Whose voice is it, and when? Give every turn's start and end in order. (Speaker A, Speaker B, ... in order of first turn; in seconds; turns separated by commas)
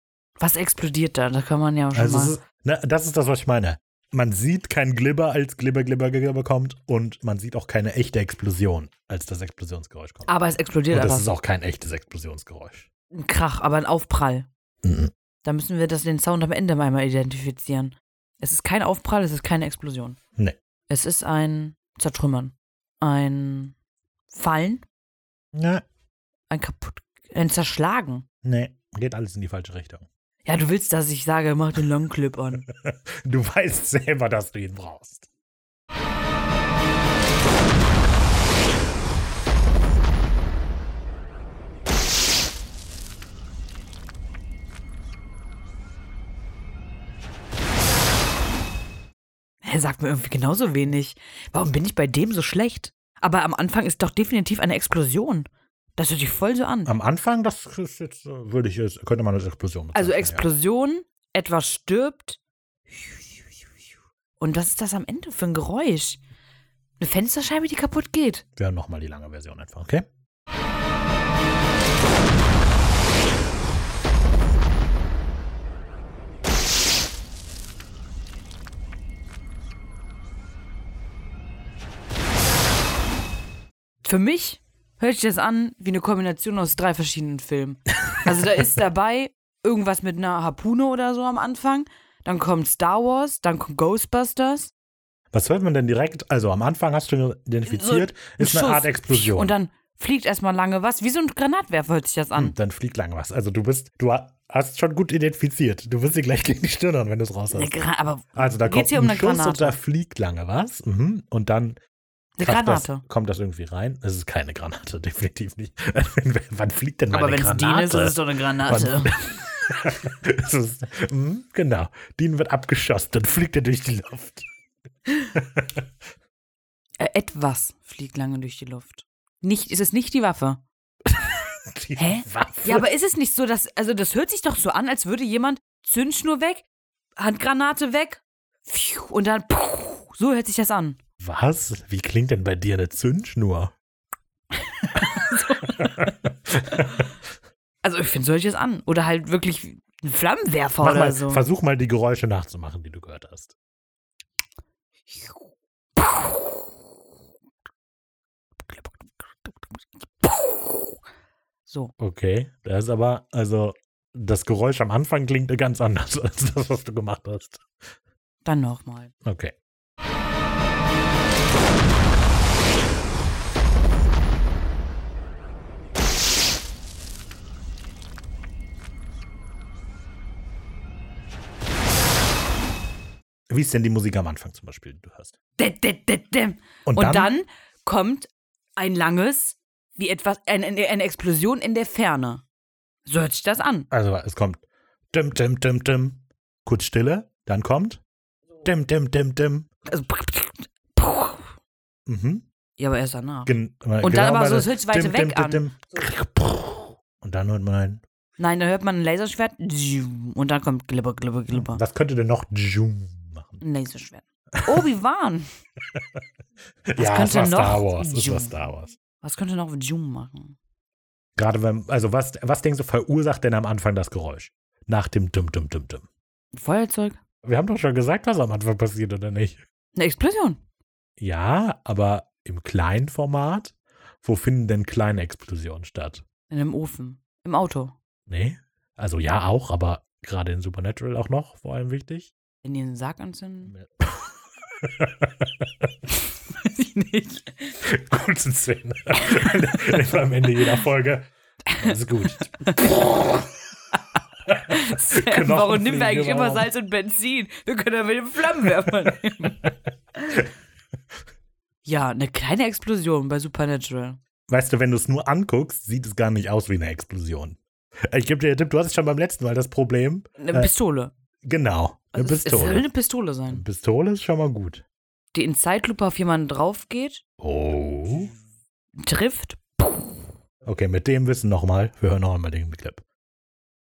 Speaker A: 0.4-2.4, Speaker B: 1.9-10.3, Speaker A: 10.3-11.3, Speaker B: 10.9-12.9, Speaker A: 13.1-14.5, Speaker B: 14.8-15.1, Speaker A: 15.4-20.2, Speaker A: 20.9-23.7, Speaker A: 24.3-24.8, Speaker B: 25.5-25.8, Speaker A: 26.5-28.2, Speaker B: 28.4-30.1, Speaker A: 30.4-32.6, Speaker B: 32.7-35.3, Speaker A: 49.6-56.9, Speaker B: 56.9-60.5, Speaker A: 59.9-63.6, Speaker A: 64.4-66.2, Speaker A: 67.0-68.4, Speaker B: 68.5-70.0, Speaker A: 84.0-94.7, Speaker B: 95.3-99.5, Speaker A: 97.7-102.5, Speaker B: 102.3-107.7, Speaker A: 107.5-109.8, Speaker B: 108.3-111.8, Speaker A: 112.4-113.0, Speaker B: 112.4-124.5, Speaker A: 117.1-119.2, Speaker B: 125.3-125.8, Speaker A: 127.0-130.6, Speaker B: 131.1-132.9, Speaker A: 132.0-136.6, Speaker A: 137.2-141.0, Speaker B: 141.2-143.7, Speaker A: 144.8-146.1, Speaker B: 145.8-147.1, Speaker A: 147.8-151.4, Speaker B: 150.8-153.5, Speaker A: 155.1-155.4, Speaker A: 156.0-156.7, Speaker A: 158.6-161.0, Speaker A: 161.7-161.9, Speaker B: 162.0-167.6, Speaker A: 168.4-169.1, Speaker B: 169.2-169.5, Speaker B: 183.5-185.3, Speaker A: 185.6-192.4, Speaker B: 186.8-187.3, Speaker A: 193.1-193.9, Speaker B: 193.9-198.0, Speaker B: 198.6-199.7, Speaker A: 199.9-201.5, Speaker B: 202.1-202.4, Speaker A: 202.8-205.6, Speaker B: 203.4-208.0, Speaker A: 208.4-211.8, Speaker B: 211.5-213.6, Speaker A: 213.6-215.5, Speaker B: 214.6-214.8, Speaker B: 216.9-218.9, Speaker A: 217.0-220.6, Speaker B: 221.3-226.1, Speaker A: 226.5-227.2, Speaker B: 227.4-229.6, Speaker A: 229.9-230.6, Speaker B: 231.2-236.2, Speaker A: 236.5-237.9, Speaker B: 238.3-242.3, Speaker A: 242.6-243.7, Speaker B: 243.7-245.6, Speaker A: 246.5-247.7, Speaker B: 247.8-252.6, Speaker A: 249.2-249.6, Speaker A: 251.7-254.0, Speaker A: 254.5-259.6, Speaker B: 254.5-256.7, Speaker B: 259.4-259.7, Speaker A: 261.8-264.2, Speaker B: 264.5-270.7, Speaker A: 270.4-271.1, Speaker B: 271.4-272.9, Speaker A: 272.1-273.6, Speaker B: 273.5-274.8, Speaker A: 275.3-277.2, Speaker B: 277.4-278.3, Speaker A: 279.0-280.2, Speaker B: 280.6-283.0